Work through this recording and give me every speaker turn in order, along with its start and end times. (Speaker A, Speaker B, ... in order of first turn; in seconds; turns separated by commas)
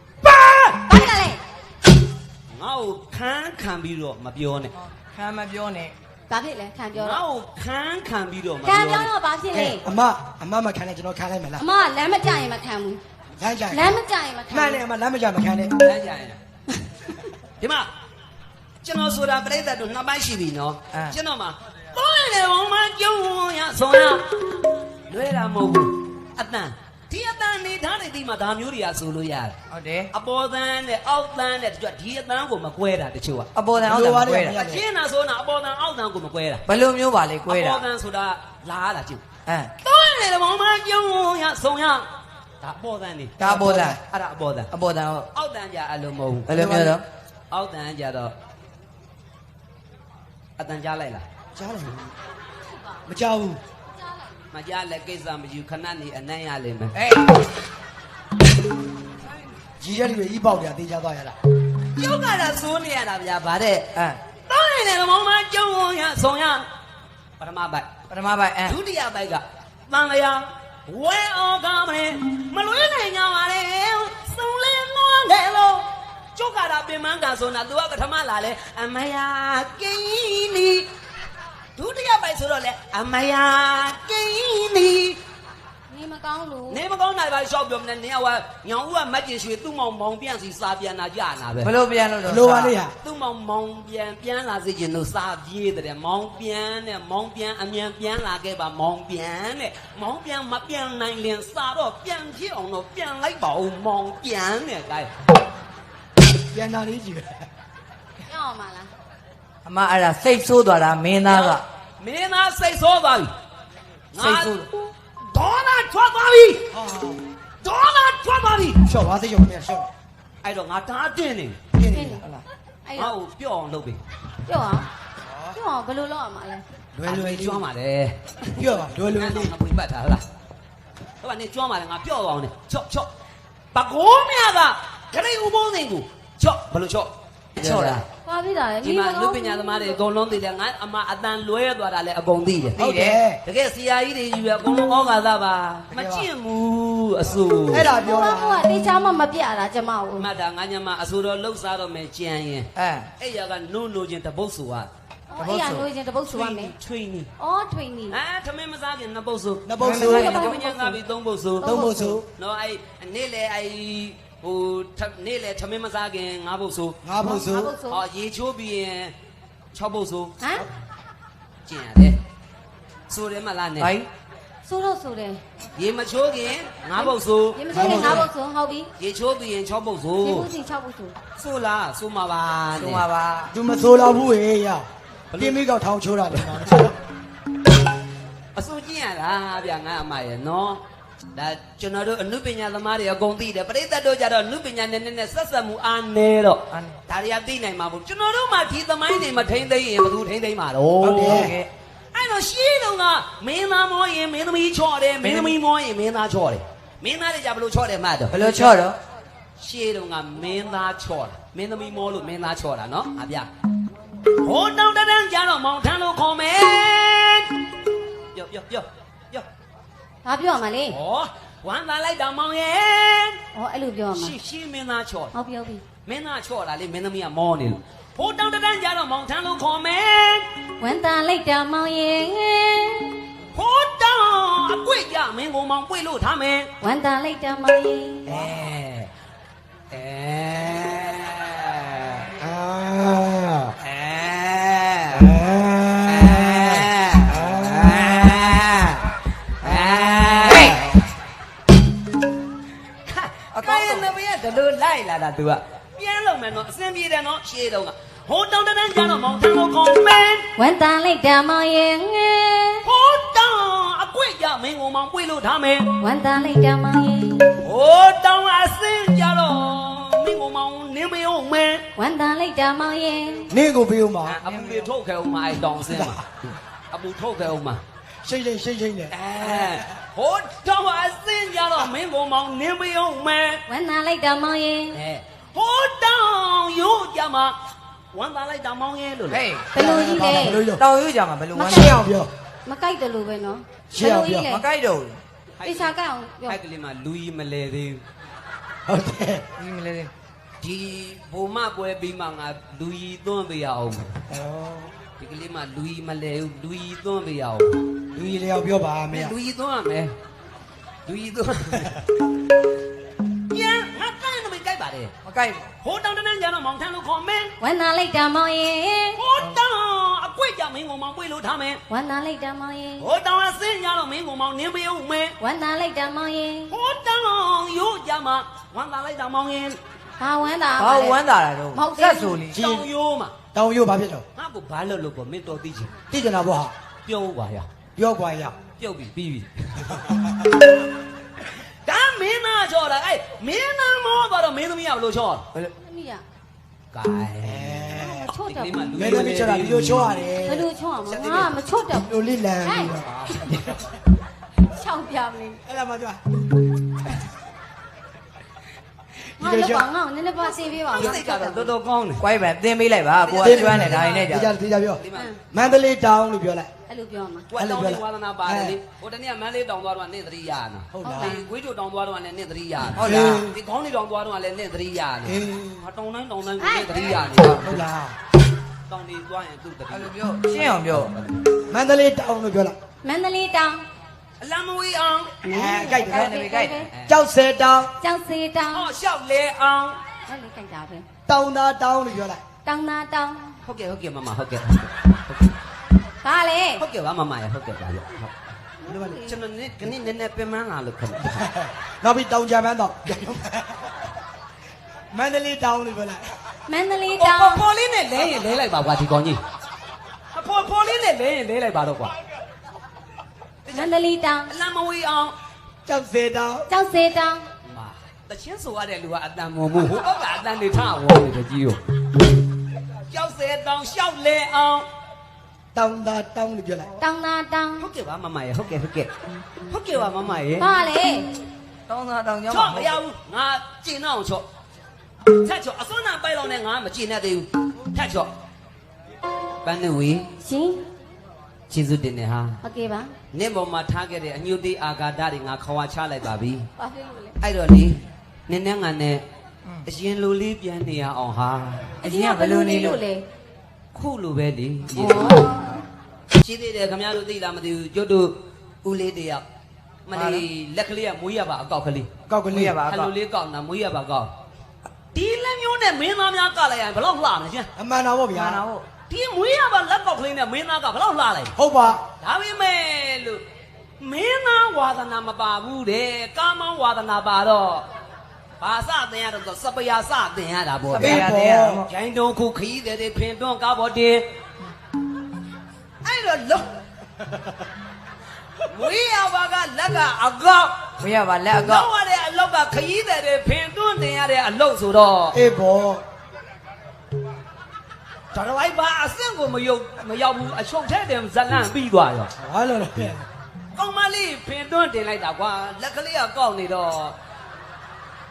Speaker A: 0.2-0.8, Speaker B: 0.8-1.4, Speaker A: 2.5-4.7, Speaker C: 4.8-5.9, Speaker B: 6.3-7.2, Speaker A: 6.9-9.1, Speaker B: 8.6-9.8, Speaker D: 9.5-11.6, Speaker B: 11.6-13.0, Speaker D: 13.4-13.9, Speaker B: 13.7-14.8, Speaker D: 14.5-15.8, Speaker A: 15.8-16.4, Speaker B: 16.7-17.3, Speaker A: 17.6-17.9, Speaker A: 18.8-24.3, Speaker A: 25.1-29.5, Speaker C: 29.7-30.1, Speaker A: 30.1-33.5, Speaker C: 33.5-34.5, Speaker D: 33.7-34.8, Speaker A: 34.5-36.6, Speaker C: 36.7-37.8, Speaker A: 37.5-39.2, Speaker C: 39.5-39.7, Speaker A: 39.8-42.0, Speaker A: 42.6-44.7, Speaker C: 43.4-44.0, Speaker C: 44.7-45.3, Speaker A: 45.3-46.5, Speaker C: 46.5-47.0, Speaker D: 46.5-47.0, Speaker A: 47.5-48.3, Speaker A: 50.6-51.2, Speaker D: 51.5-52.1, Speaker D: 53.0-53.6, Speaker A: 54.5-57.0, Speaker C: 57.0-57.3, Speaker D: 59.8-61.4, Speaker A: 61.9-63.9, Speaker A: 64.5-66.6, Speaker A: 67.4-67.9, Speaker C: 68.1-68.8, Speaker A: 68.6-80.9, Speaker A: 81.8-85.2, Speaker B: 85.9-86.8, Speaker A: 86.7-91.8, Speaker C: 91.6-92.7, Speaker D: 92.2-92.9, Speaker A: 93.0-105.1, Speaker D: 106.5-107.4, Speaker B: 108.2-108.9, Speaker C: 109.6-111.6, Speaker A: 111.2-113.3, Speaker A: 114.1-114.6, Speaker C: 114.2-114.7, Speaker A: 115.2-116.7, Speaker D: 116.7-117.2, Speaker A: 117.6-118.8, Speaker D: 118.8-119.9, Speaker A: 120.4-121.6, Speaker D: 121.7-122.2, Speaker B: 121.9-122.3, Speaker B: 122.8-123.1, Speaker A: 123.0-124.0, Speaker B: 124.5-124.9, Speaker D: 125.2-125.6, Speaker B: 125.5-126.6, Speaker D: 126.9-127.6, Speaker A: 127.0-128.6, Speaker D: 128.5-129.5, Speaker A: 129.1-130.2, Speaker A: 131.2-133.1, Speaker A: 133.7-138.1, Speaker C: 137.6-138.0, Speaker B: 138.2-140.0, Speaker A: 138.8-142.8, Speaker C: 142.8-143.2, Speaker D: 142.8-143.4, Speaker A: 143.4-147.9, Speaker D: 145.9-146.3, Speaker D: 147.7-148.6, Speaker B: 147.9-150.3, Speaker A: 150.2-154.9, Speaker C: 152.8-153.1, Speaker B: 155.3-156.7, Speaker C: 155.4-155.9, Speaker A: 156.2-157.3, Speaker B: 157.4-158.2, Speaker A: 158.1-161.8, Speaker D: 159.7-160.3, Speaker C: 159.8-160.6, Speaker B: 159.8-161.0, Speaker B: 161.6-162.2, Speaker D: 161.6-162.2, Speaker A: 162.3-167.0, Speaker D: 167.0-167.7, Speaker B: 167.2-168.0, Speaker A: 167.9-169.1, Speaker A: 169.7-170.3, Speaker B: 170.4-170.7, Speaker A: 171.6-172.2, Speaker A: 173.1-173.9, Speaker C: 173.8-174.1, Speaker B: 174.6-175.4, Speaker A: 175.8-178.2, Speaker B: 176.9-178.9, Speaker D: 177.7-178.3, Speaker A: 179.0-180.5, Speaker B: 180.2-181.1, Speaker A: 181.3-183.0, Speaker C: 182.8-183.5, Speaker D: 183.5-186.9, Speaker A: 185.3-185.6, Speaker A: 188.5-190.8, Speaker A: 191.3-201.5, Speaker D: 201.0-201.6, Speaker C: 201.1-201.7, Speaker A: 202.1-208.8, Speaker C: 205.2-205.5, Speaker C: 208.3-208.9, Speaker A: 209.6-213.5, Speaker A: 214.3-217.5, Speaker A: 218.3-219.4, Speaker B: 220.2-220.9, Speaker A: 220.9-223.4, Speaker B: 223.5-224.3, Speaker A: 224.1-225.3, Speaker B: 225.3-225.8, Speaker A: 226.0-230.5, Speaker B: 230.8-233.2, Speaker A: 233.5-236.7, Speaker B: 236.8-238.5, Speaker A: 238.2-239.1, Speaker A: 239.9-242.3, Speaker D: 242.4-243.7, Speaker A: 243.8-245.4, Speaker D: 245.2-247.9, Speaker A: 246.0-250.9, Speaker C: 249.7-250.8, Speaker A: 253.1-260.5, Speaker C: 253.5-254.1, Speaker B: 260.6-262.8, Speaker A: 262.8-265.9, Speaker B: 266.0-267.6, Speaker A: 267.6-271.8, Speaker B: 271.9-273.5, Speaker D: 273.5-274.4, Speaker A: 274.3-276.2, Speaker C: 274.5-274.9, Speaker D: 275.9-276.2, Speaker A: 276.9-277.8, Speaker D: 278.2-279.8, Speaker A: 279.1-283.6, Speaker B: 283.7-285.0, Speaker A: 284.9-287.6, Speaker A: 288.1-289.4, Speaker C: 289.3-289.7, Speaker D: 289.7-290.8, Speaker B: 289.7-290.6, Speaker C: 290.7-292.0, Speaker B: 291.5-292.0, Speaker D: 291.7-292.3, Speaker B: 292.6-294.6, Speaker D: 293.9-294.5, Speaker C: 294.4-295.2, Speaker A: 295.6-295.9, Speaker B: 295.6-296.6, Speaker A: 296.5-298.0, Speaker D: 298.9-299.4, Speaker C: 299.6-300.1, Speaker A: 300.6-304.2, Speaker D: 304.3-304.9, Speaker A: 305.2-307.7, Speaker D: 308.1-309.4, Speaker A: 309.1-310.1, Speaker A: 311.1-312.0, Speaker A: 313.5-315.1, Speaker C: 315.2-315.7, Speaker A: 315.8-317.5, Speaker B: 317.6-319.2, Speaker A: 319.1-321.8, Speaker B: 321.9-323.1, Speaker A: 323.0-325.4, Speaker B: 325.4-326.7, Speaker A: 326.7-329.8, Speaker B: 330.2-332.4, Speaker C: 330.8-332.6, Speaker A: 332.5-333.3, Speaker D: 332.5-332.9, Speaker D: 333.5-334.2, Speaker A: 334.4-335.9, Speaker D: 336.1-336.7, Speaker A: 337.0-337.6, Speaker D: 337.9-338.5, Speaker A: 338.8-340.0, Speaker D: 339.9-340.3, Speaker A: 341.5-345.5, Speaker B: 345.8-346.2, Speaker A: 346.9-350.2, Speaker D: 347.4-348.3, Speaker B: 347.9-349.0, Speaker D: 348.9-353.8, Speaker B: 350.3-352.1, Speaker B: 352.6-353.0, Speaker A: 353.0-353.8, Speaker B: 354.6-355.6, Speaker D: 355.6-356.2, Speaker D: 359.4-359.9, Speaker B: 359.4-361.7, Speaker A: 360.8-362.3, Speaker C: 362.2-364.5, Speaker A: 363.2-364.4, Speaker D: 363.4-365.0, Speaker A: 365.0-365.3, Speaker D: 365.5-366.7, Speaker B: 366.9-367.5, Speaker A: 367.5-377.8, Speaker D: 367.5-368.8, Speaker D: 370.9-371.4, Speaker B: 371.0-371.5, Speaker C: 372.9-373.5, Speaker D: 373.0-373.5, Speaker D: 375.2-375.8, Speaker B: 376.6-377.2, Speaker C: 377.3-377.7, Speaker D: 377.6-378.1, Speaker A: 378.9-381.5, Speaker C: 379.9-381.1, Speaker D: 381.7-382.7, Speaker B: 383.0-383.8, Speaker A: 384.4-385.4, Speaker B: 385.4-386.9, Speaker D: 385.5-386.4, Speaker C: 386.0-386.8, Speaker A: 386.8-387.2, Speaker D: 387.1-387.9, Speaker B: 388.0-388.9, Speaker A: 388.7-390.0, Speaker B: 390.3-391.0, Speaker D: 391.3-392.4, Speaker B: 392.6-393.6, Speaker A: 393.6-395.5, Speaker B: 396.2-396.8, Speaker A: 396.8-398.3, Speaker B: 398.8-399.3, Speaker D: 398.9-399.3, Speaker A: 399.2-401.4, Speaker D: 401.2-403.9, Speaker D: 405.1-406.5, Speaker B: 406.7-407.6, Speaker A: 407.2-409.4, Speaker A: 410.3-412.1, Speaker A: 413.6-413.9, Speaker B: 413.7-414.5, Speaker A: 414.5-415.3, Speaker D: 415.9-416.7, Speaker B: 416.7-417.4, Speaker A: 417.6-421.8, Speaker A: 423.1-424.9, Speaker D: 425.7-426.9, Speaker B: 427.0-427.8, Speaker A: 427.8-429.1, Speaker A: 429.7-430.7, Speaker B: 430.6-431.3, Speaker C: 431.9-432.9, Speaker A: 432.5-434.4, Speaker A: 435.2-438.3, Speaker A: 439.6-440.3, Speaker B: 440.4-440.8, Speaker A: 441.7-442.6, Speaker B: 442.6-443.1, Speaker A: 443.3-446.7, Speaker B: 446.8-447.4, Speaker A: 447.4-449.2, Speaker A: 449.8-452.0, Speaker C: 452.0-453.0, Speaker B: 452.0-453.2, Speaker A: 453.9-455.5, Speaker C: 455.0-455.7, Speaker B: 455.0-455.6, Speaker A: 456.3-459.4, Speaker A: 460.1-462.1, Speaker C: 460.1-460.4, Speaker D: 462.3-462.8, Speaker C: 462.5-463.1, Speaker A: 462.8-464.3, Speaker A: 465.1-467.7, Speaker D: 467.8-468.6, Speaker C: 468.3-468.9, Speaker A: 469.1-471.5, Speaker D: 471.6-472.0, Speaker A: 472.2-473.4, Speaker A: 474.0-477.8, Speaker A: 478.6-481.3, Speaker C: 480.9-481.9, Speaker D: 481.0-481.9, Speaker A: 481.9-484.2, Speaker A: 486.0-486.7, Speaker A: 488.7-490.9, Speaker C: 491.0-491.9, Speaker A: 491.6-495.4, Speaker D: 495.3-496.0, Speaker A: 498.3-502.3, Speaker D: 502.4-503.2, Speaker A: 503.7-507.1